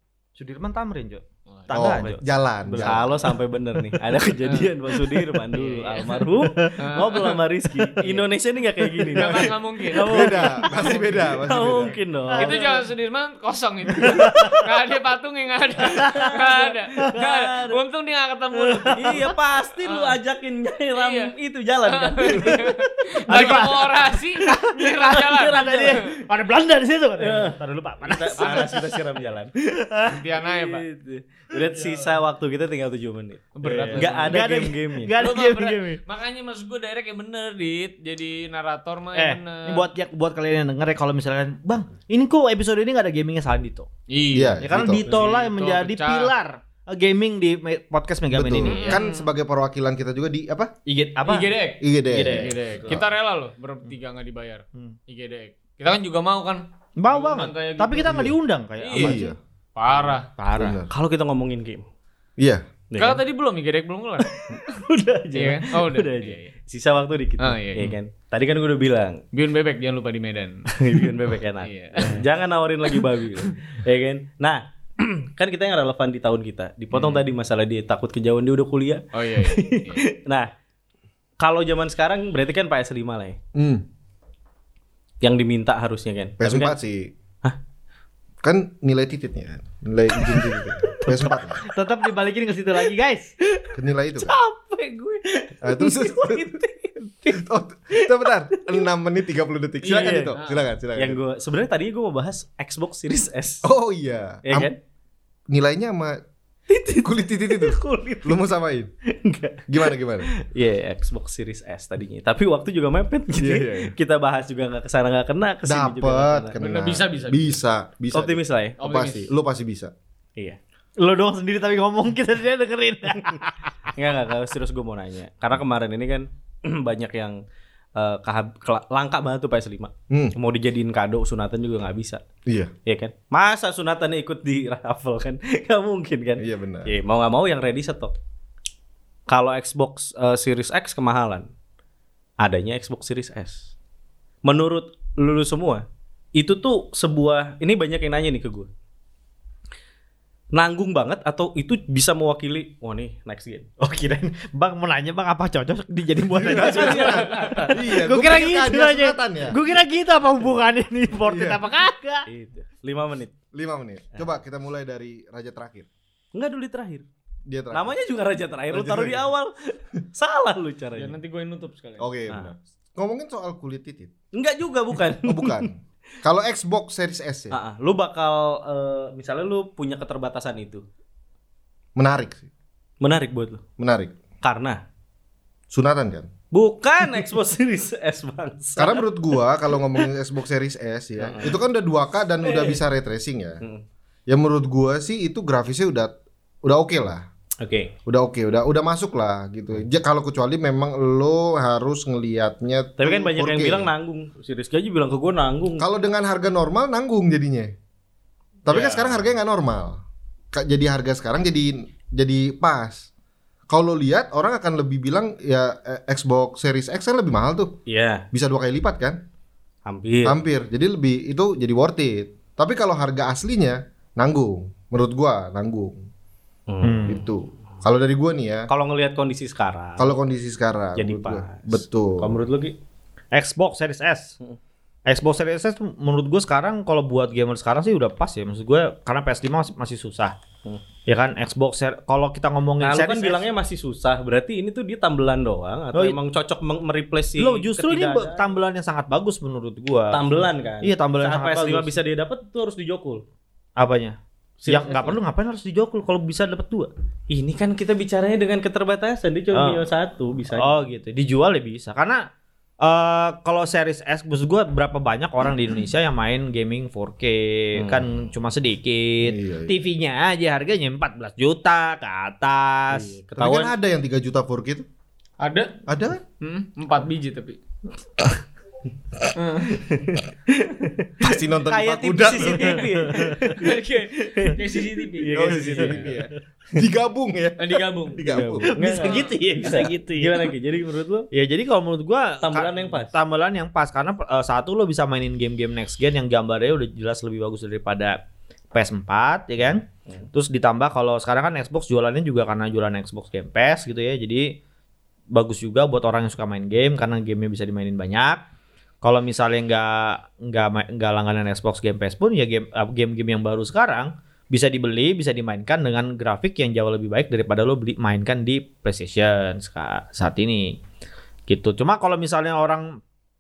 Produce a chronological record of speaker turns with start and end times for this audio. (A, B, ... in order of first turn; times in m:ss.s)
0:00.4-0:03.2 A
0:01.5-0:02.0 B
0:01.7-0:03.3 C
0:01.8-0:02.2 D
0:02.7-0:12.8 D
0:04.4-0:04.7 B
0:05.5-0:06.3 B
0:06.4-0:06.7 A
0:06.8-0:07.4 B
0:08.9-0:09.2 A
0:09.2-0:20.2 B
0:10.0-0:12.0 C
0:10.4-0:10.7 A
0:12.3-0:12.7 A
0:13.9-0:14.6 A
0:14.0-0:14.3 D
0:15.8-0:17.8 D
0:15.9-0:16.3 A
0:18.6-0:19.2 A
0:18.9-0:23.9 D
0:21.0-0:26.0 B
0:23.3-0:28.9 A
0:25.0-0:26.1 D
0:27.2-0:35.2 D
0:28.4-0:29.3 B
0:29.8-0:30.2 A
0:30.0-0:30.8 B
0:31.7-0:32.2 B
0:33.6-0:34.5 B
0:33.6-0:36.0 A
0:35.2-0:39.9 B
0:39.2-0:43.9 A
0:44.1-0:46.3 B
0:44.3-0:45.1 C
0:44.6-0:49.0 A
0:48.3-0:50.7 C
0:48.6-0:49.3 B
0:50.9-0:51.5 A
0:51.2-0:59.2 B
0:51.8-0:53.0 C
0:52.1-0:52.5 A
0:57.0-0:59.3 A
0:58.0-0:58.3 C
0:59.0-0:59.4 C
0:59.8-1:00.3 B
1:00.4-1:00.8 A
1:00.6-1:00.9 C
1:00.9-1:01.9 D
1:02.9-1:03.2 D
1:03.0-1:04.8 B
1:04.2-1:09.2 D
1:05.3-1:06.5 B
1:07.4-1:08.0 B
1:09.3-1:12.3 B
1:10.8-1:20.5 D
1:16.9-1:17.2 B
1:19.1-1:20.0 B
1:21.4-1:23.4 D
1:23.6-1:23.8 C
1:25.2-1:26.8 D
1:26.4-1:27.1 C
1:28.4-1:31.6 C
1:30.2-1:31.4 D
1:31.7-1:33.3 A
1:33.4-1:38.8 D
1:33.7-1:34.4 C
1:35.6-1:36.6 C
1:37.3-1:41.2 C
1:39.8-1:40.4 D
1:40.3-1:40.7 B
1:41.0-1:43.6 D
1:43.6-1:44.7 C
1:44.4-1:44.8 D
1:45.5-1:46.2 C
1:46.7-1:48.4 D
1:47.0-1:48.9 C
1:49.1-1:56.6 D
1:49.7-1:50.3 C
1:53.4-1:53.9 C
1:55.6-1:59.9 C
1:56.6-1:57.6 B
1:58.1-1:58.8 D
1:58.8-1:59.3 B
2:01.0-2:03.9 A
2:04.0-2:07.4 D
2:08.0-2:12.2 D
2:10.1-2:10.4 C
2:12.5-2:12.7 C
2:12.8-2:18.1 D
2:16.4-2:16.9 C
2:19.3-2:21.5 D
2:22.4-2:23.7 D
2:24.4-2:28.7 D
2:30.5-2:33.7 D
2:33.8-2:37.2 A
2:36.4-2:39.6 C
2:36.4-2:37.8 D
2:37.0-2:37.7 B
2:37.9-2:42.3 A
2:41.3-2:41.6 C
2:42.3-2:43.3 D
2:43.5-2:45.9 C
2:46.3-2:47.1 D
2:47.5-2:47.9 C
2:47.7-2:51.2 D
2:48.7-2:49.3 C
2:51.0-2:52.1 B
2:52.0-2:54.1 C
2:54.3-2:55.7 D
2:55.2-2:57.6 C
2:57.5-3:00.8 D
3:02.0-3:02.5 C
3:03.0-3:03.6 D
3:03.8-3:04.2 C
3:04.4-3:04.8 D
3:05.7-3:06.3 C
3:06.5-3:09.1 D
3:08.8-3:13.6 C
3:11.2-3:11.6 D
3:12.4-3:12.8 D
3:14.3-3:16.1 C
3:16.6-3:17.3 C
3:17.6-3:17.9 D
3:18.1-3:23.9 C
3:23.0-3:25.9 D
3:25.8-3:27.7 C
3:28.6-3:30.0 C
3:28.7-3:29.1 D
3:30.5-3:33.1 C
3:33.7-3:37.8 C
3:37.9-3:38.2 D
3:38.3-3:39.2 C
3:39.8-3:40.4 D
3:40.2-3:46.0 C
3:46.7-3:47.2 D
3:46.8-3:47.2 A
3:47.0-3:48.7 C
3:48.7-3:50.2 D
3:50.0-3:52.3 C
3:51.0-3:52.8 D
3:53.3-3:54.4 A
3:55.1-4:00.4 A
4:01.1-4:03.5 A
4:02.8-4:08.4 D
4:07.4-4:10.2 A
4:10.1-4:13.2 D
4:10.8-4:12.0 A
4:13.8-4:16.9 A
4:14.6-4:15.2 D
4:17.3-4:20.7 D
4:19.5-4:19.8 A
4:20.5-4:22.3 A
4:22.8-4:33.1 A
4:27.8-4:28.1 D
4:29.2-4:29.8 C
4:32.9-4:33.7 D
4:33.4-4:34.9 C
4:35.4-4:35.8 B
4:35.9-4:36.2 C
4:36.4-4:37.6 B
4:39.4-4:39.8 B
4:39.6-4:46.2 D
4:41.2-4:42.9 C
4:43.6-4:46.1 B
4:45.3-4:48.7 C
4:47.6-4:48.3 B
4:48.2-4:51.3 D
4:48.7-4:50.5 A
4:49.0-4:49.3 B
4:51.3-4:58.2 A
4:52.4-4:53.2 D
4:58.7-5:04.6 A
5:05.3-5:08.4 A
5:09.0-5:20.8 A
5:21.5-5:23.0 A